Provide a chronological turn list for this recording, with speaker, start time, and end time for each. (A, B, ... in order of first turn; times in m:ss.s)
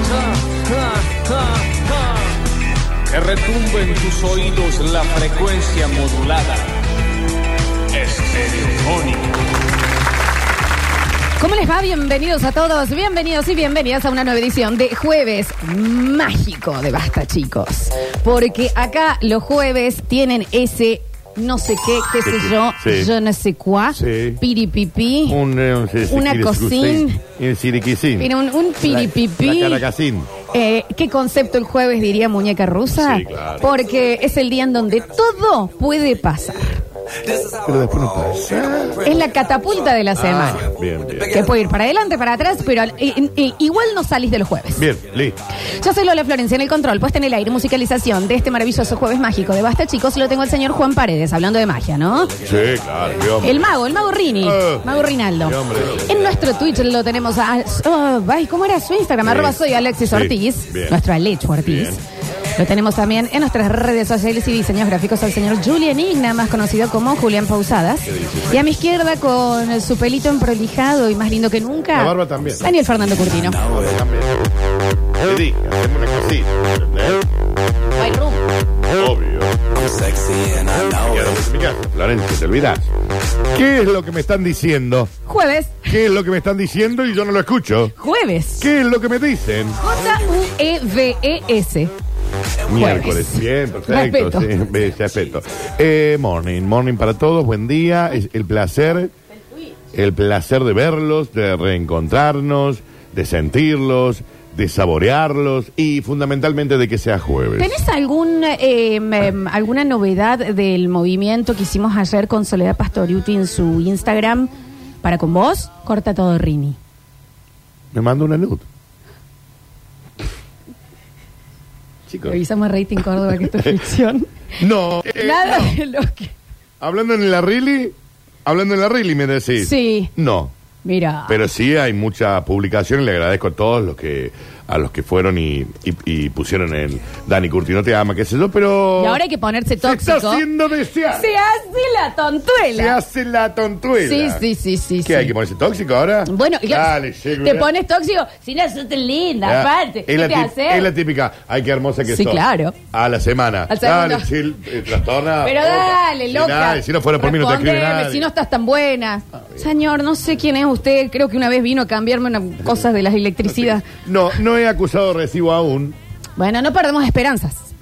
0:00.5-0:01.8 A
0:03.1-0:06.7 A
0:08.0-0:09.4 A
0:11.4-0:25.4 B
0:22.2-0:23.1 C
0:23.9-0:24.4 C
0:25.3-0:28.3 C
0:26.1-0:27.2 B
0:28.2-0:29.8 B
0:28.8-0:30.3 C
0:30.5-0:36.8 B
0:32.9-0:33.7 C
0:37.5-0:39.1 C
0:39.0-0:40.6 B
0:40.2-0:41.4 C
0:41.2-0:44.8 B
0:44.8-0:45.4 C
0:45.7-0:52.3 B
0:52.4-0:53.6 C
0:53.4-1:02.0 B
0:54.4-0:56.3 C
0:59.2-1:00.9 C
1:01.6-1:02.0 C
1:02.6-1:13.7 B
1:08.0-1:08.6 C
1:11.9-1:12.7 C
1:13.5-1:14.5 C
1:15.2-1:17.2 C
1:18.0-1:18.4 B
1:18.9-1:20.1 C
1:20.1-1:20.5 A
1:20.6-1:22.9 C
1:23.5-1:25.1 C
1:25.2-1:26.0 B
1:25.9-1:27.9 C
1:28.0-1:28.7 B
1:28.6-1:29.8 C
1:29.8-1:31.9 B
1:32.7-1:39.1 C
1:32.7-1:34.5 B
1:39.9-1:47.7 C
1:47.6-1:54.5 B
1:55.0-1:56.8 B
1:57.9-1:58.6 C
2:02.1-2:02.4 C
2:02.2-2:04.3 B
2:03.3-2:03.7 C
2:04.6-2:05.8 C
2:05.1-2:06.3 B
2:06.8-2:10.5 C
2:09.6-2:10.1 B
2:10.8-2:11.4 B
2:11.3-2:19.2 C
2:19.0-2:20.4 B
2:19.8-2:21.3 C
2:21.1-2:23.0 B
2:22.7-2:24.4 C
2:24.0-2:25.3 B
2:25.0-2:27.7 C
2:26.2-2:30.9 B
2:29.4-2:32.4 C
2:32.0-2:32.8 B
2:32.9-2:38.3 C
2:33.7-2:34.3 B
2:35.4-2:43.8 B
2:43.4-2:46.0 C
2:46.4-2:47.7 B